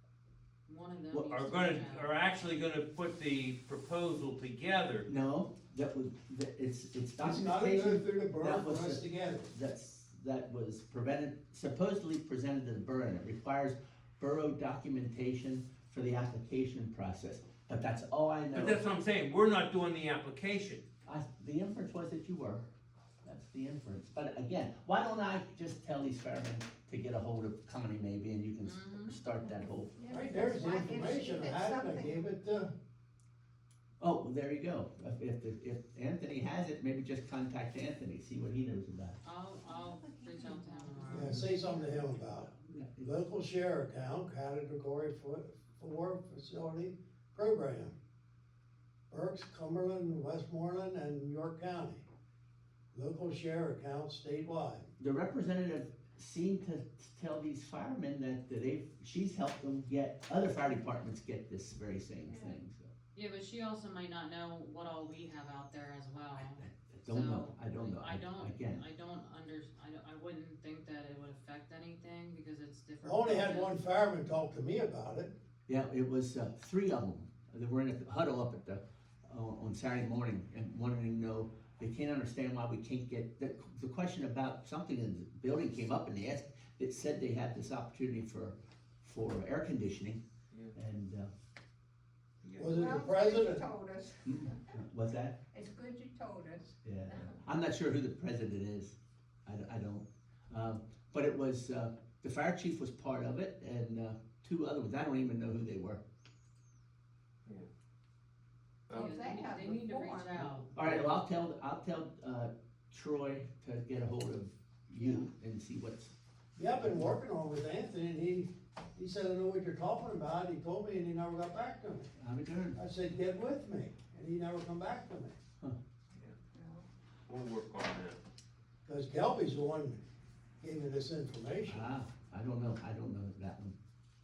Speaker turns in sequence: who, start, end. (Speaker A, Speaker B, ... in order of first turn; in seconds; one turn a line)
Speaker A: 0.7-2.1
Speaker B: 1.1-1.4
Speaker C: 1.3-5.1
Speaker B: 5.1-18.8
Speaker D: 7.2-9.5
Speaker C: 18.5-20.8
Speaker B: 21.1-22.7
Speaker B: 23.2-29.9
Speaker A: 28.6-29.2
Speaker E: 30.0-32.3
Speaker D: 30.1-32.7
Speaker B: 34.0-39.2
Speaker A: 39.2-41.5
Speaker E: 39.7-42.2
Speaker D: 41.1-48.0
Speaker B: 42.6-43.1
Speaker D: 49.1-52.1
Speaker D: 52.9-54.9
Speaker B: 55.0-62.9
Speaker A: 63.1-73.8
Speaker B: 66.9-68.8
Speaker D: 73.0-75.3
Speaker B: 75.7-90.2
Speaker B: 90.7-91.3
Speaker C: 92.4-92.8
Speaker D: 92.6-93.7
Speaker E: 92.6-94.5
Speaker B: 94.2-95.4
Speaker E: 95.5-96.8
Speaker B: 96.8-106.0
Speaker C: 108.9-109.2
Speaker A: 108.9-110.7
Speaker E: 108.9-110.7
Speaker B: 110.8-116.1
Speaker D: 116.6-122.1
Speaker B: 116.7-117.2
Speaker B: 122.2-122.8
Speaker D: 122.8-125.4
Speaker E: 126.5-126.8
Speaker C: 127.3-128.2
Speaker D: 128.8-130.0
Speaker D: 130.6-131.8
Speaker B: 131.7-133.8